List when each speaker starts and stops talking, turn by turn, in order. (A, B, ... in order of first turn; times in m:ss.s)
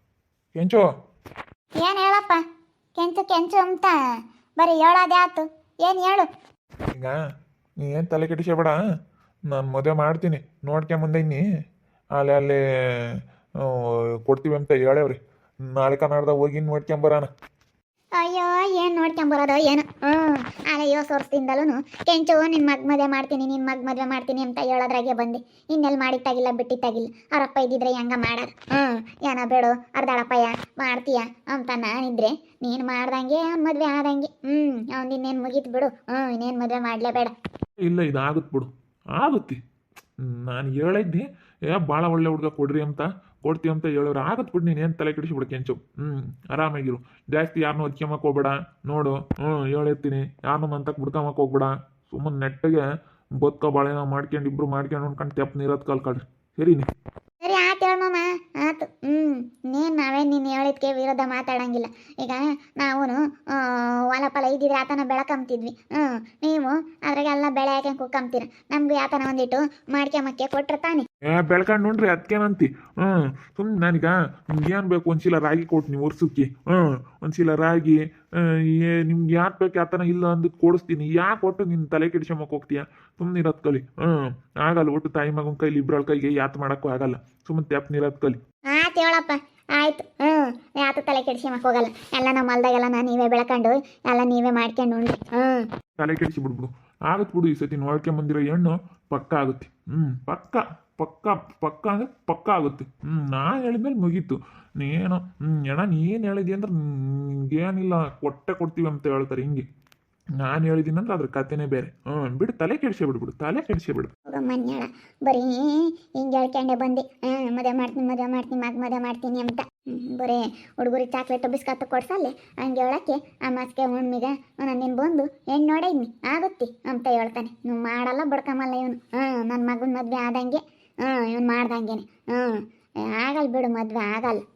0:00.5-0:00.9 A
0:01.8-0:02.4 B
0:03.0-0:04.0 B
0:04.6-0:06.3 B
0:07.8-0:08.8 A
0:09.5-0:11.4 A
0:12.1-0:17.3 A
0:18.2-0:37.3 B
0:37.8-0:39.6 A
0:40.2-0:52.8 A
0:53.4-0:56.9 A
0:57.4-1:11.0 B
1:11.3-1:28.4 A
1:28.7-1:35.7 B
1:36.0-1:49.6 A
1:50.4-1:54.1 A
1:54.3-2:14.4 B